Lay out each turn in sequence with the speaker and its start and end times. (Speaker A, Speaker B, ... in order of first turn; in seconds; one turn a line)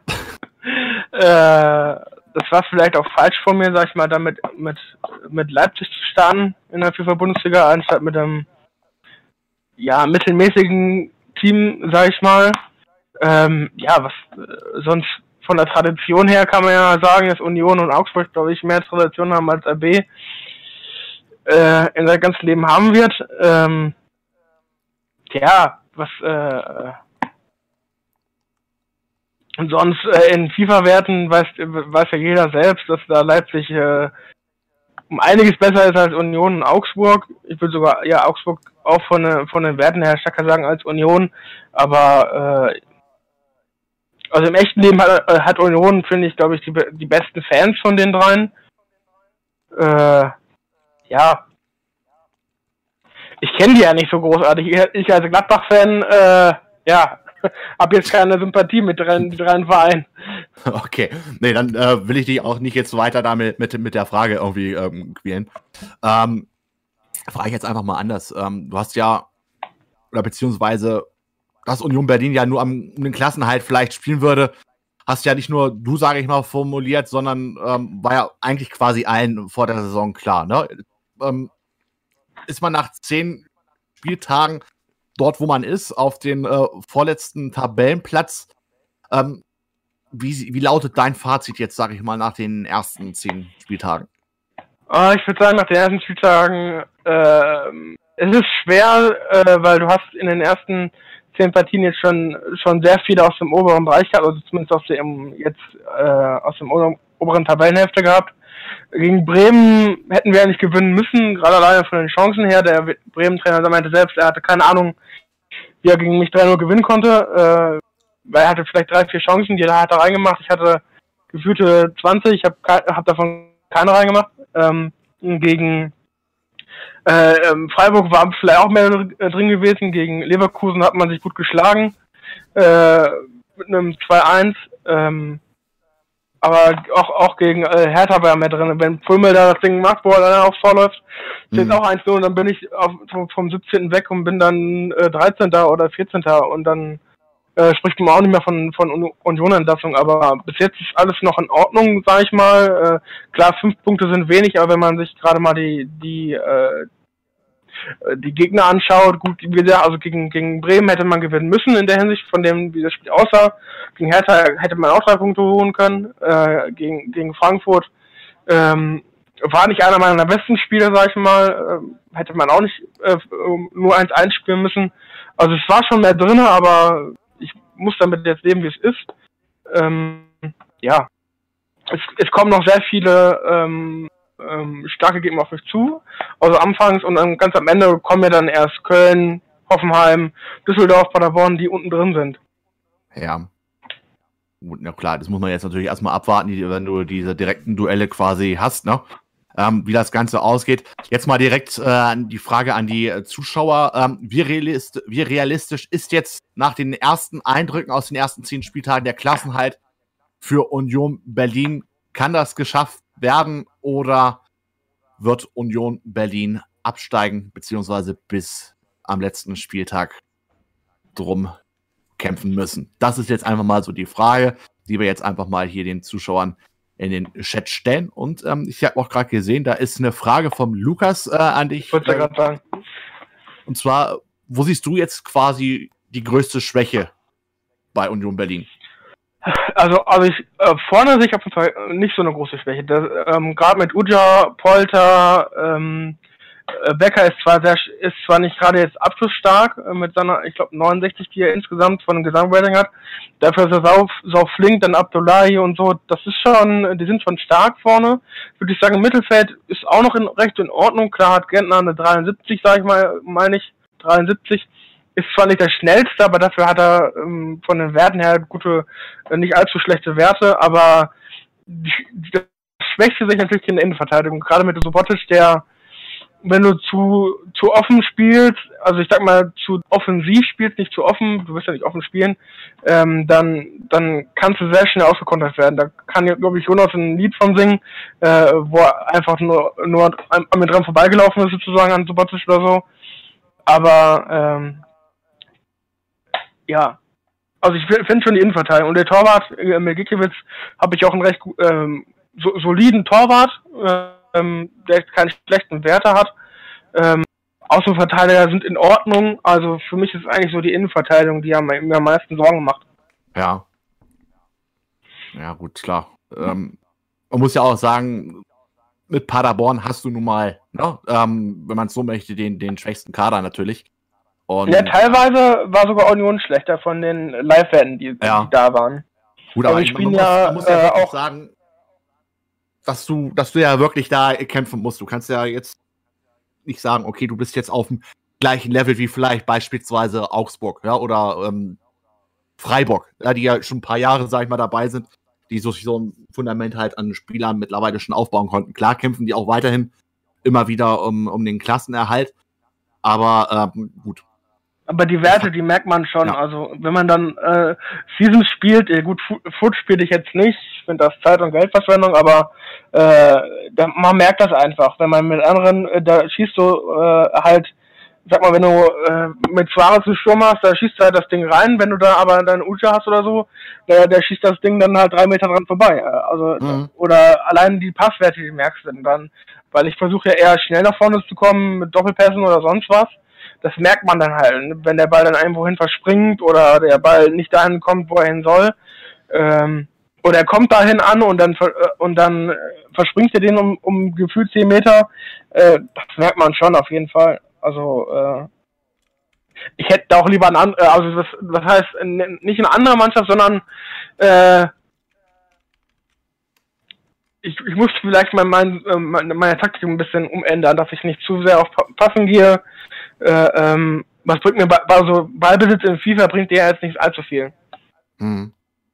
Speaker A: 0.6-8.4
Speaker A: 9.8-12.6
Speaker A: 13.2-20.1
Speaker A: 21.4-23.9
Speaker A: 25.3-27.0
Speaker A: 29.6-34.1
Speaker A: 35.1-42.8
Speaker A: 44.3-48.5
Speaker A: 49.7-50.3
Speaker A: 51.1-51.4
Speaker A: 53.4-60.4
Speaker B: 60.6-65.5
Speaker B: 66.0-66.5
Speaker B: 67.3-69.3
Speaker B: 70.1-71.0
Speaker B: 71.7-74.5
Speaker B: 75.1-81.5
Speaker B: 82.5-83.4
Speaker B: 84.0-84.6
Speaker B: 85.2-88.5
Speaker B: 89.1-89.4
Speaker B: 90.1-94.1
Speaker A: 94.9-108.3
Speaker A: 108.9-114.9
Speaker A: 115.8-125.9
Speaker A: 127.0-131.9
Speaker A: 132.5-135.4
Speaker A: 136.4-141.0
Speaker B: 141.5-141.8
Speaker A: 141.5-147.0
Speaker A: 147.6-156.9
Speaker A: 158.0-167.9
Speaker A: 168.5-179.1
Speaker A: 179.7-181.1
Speaker A: 181.9-192.4
Speaker B: 193.1-193.5
Speaker B: 194.6-199.0
Speaker B: 199.5-209.8
Speaker B: 210.4-214.4
Speaker B: 215.2-220.2
Speaker B: 221.2-221.5
Speaker B: 222.2-232.3
Speaker A: 231.9-232.6
Speaker B: 233.7-237.1
Speaker B: 237.9-238.7
Speaker A: 239.4-246.2
Speaker A: 246.7-271.1
Speaker A: 271.7-275.6
Speaker A: 276.4-292.8
Speaker A: 293.6-294.8
Speaker A: 296.7-297.0
Speaker A: 297.6-306.3
Speaker A: 306.9-312.8
Speaker B: 313.3-313.6
Speaker B: 315.3-316.8
Speaker B: 317.3-318.4
Speaker B: 319.1-323.9
Speaker B: 324.5-325.2
Speaker A: 324.6-329.0
Speaker B: 328.2-328.5
Speaker B: 329.6-331.5
Speaker A: 329.6-331.1
Speaker B: 332.9-335.8
Speaker B: 336.6-341.8
Speaker B: 342.6-349.9
Speaker B: 350.4-352.3
Speaker B: 353.0-354.2
Speaker A: 354.9-367.7
Speaker A: 368.2-388.7
Speaker B: 376.6-376.9
Speaker A: 389.3-398.5
Speaker A: 399.8-403.6
Speaker A: 404.2-404.7
Speaker A: 407.4-412.6
Speaker A: 413.2-417.5
Speaker B: 418.2-418.5